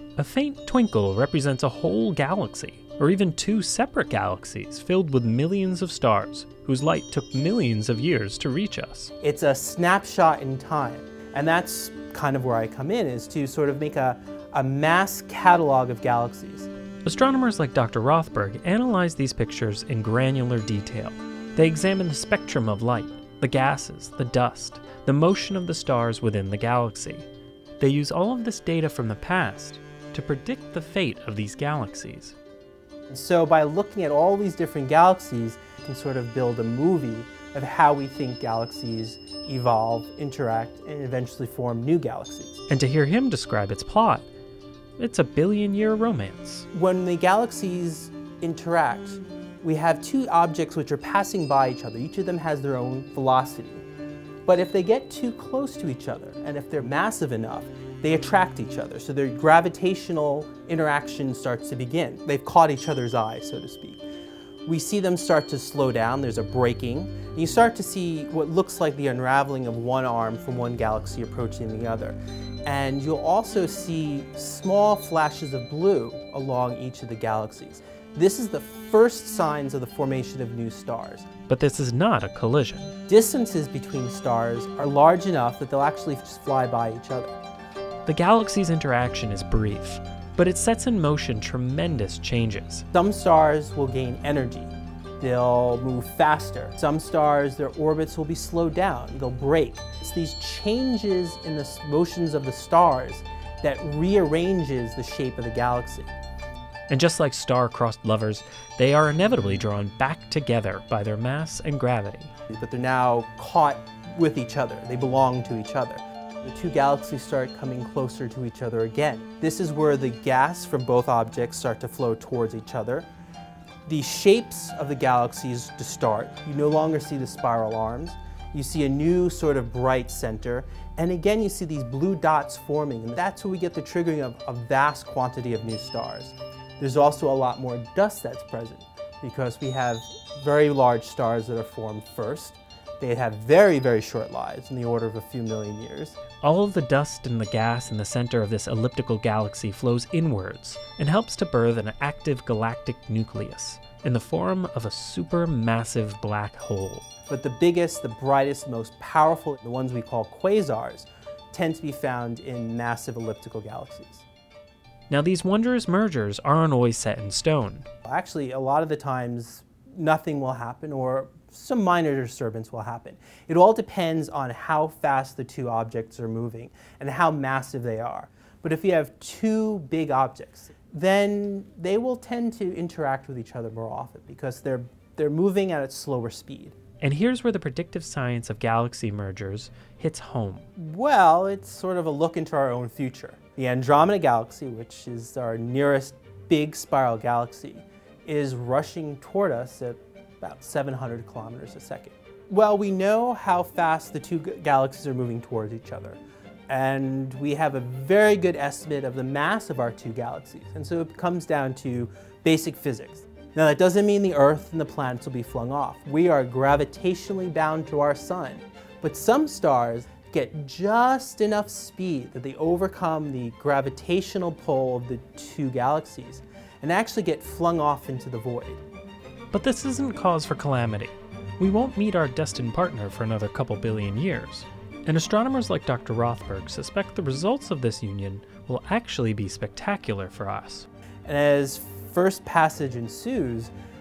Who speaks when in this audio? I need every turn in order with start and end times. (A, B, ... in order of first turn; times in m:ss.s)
0:00.2-0:09.1 A
0:09.2-0:16.7 B
0:17.0-0:27.3 A
0:27.8-0:32.4 A
0:33.1-0:42.6 B
0:42.7-0:44.3 A
0:45.0-0:46.7 A
0:46.7-0:53.8 B
0:54.4-1:04.0 B
1:04.6-1:21.3 B
1:21.5-1:22.9 A
1:23.1-1:27.4 B
1:28.0-1:32.8 A
1:32.9-1:46.1 B
1:46.9-1:52.3 A
1:52.5-2:03.1 B
2:03.8-2:26.2 B
2:26.4-2:37.0 A
2:37.3-2:44.2 B
2:45.1-2:47.9 A
2:48.0-3:06.8 B
3:07.0-3:10.7 A
3:10.8-3:48.8 B
3:49.5-4:00.9 A
4:01.2-4:03.7 B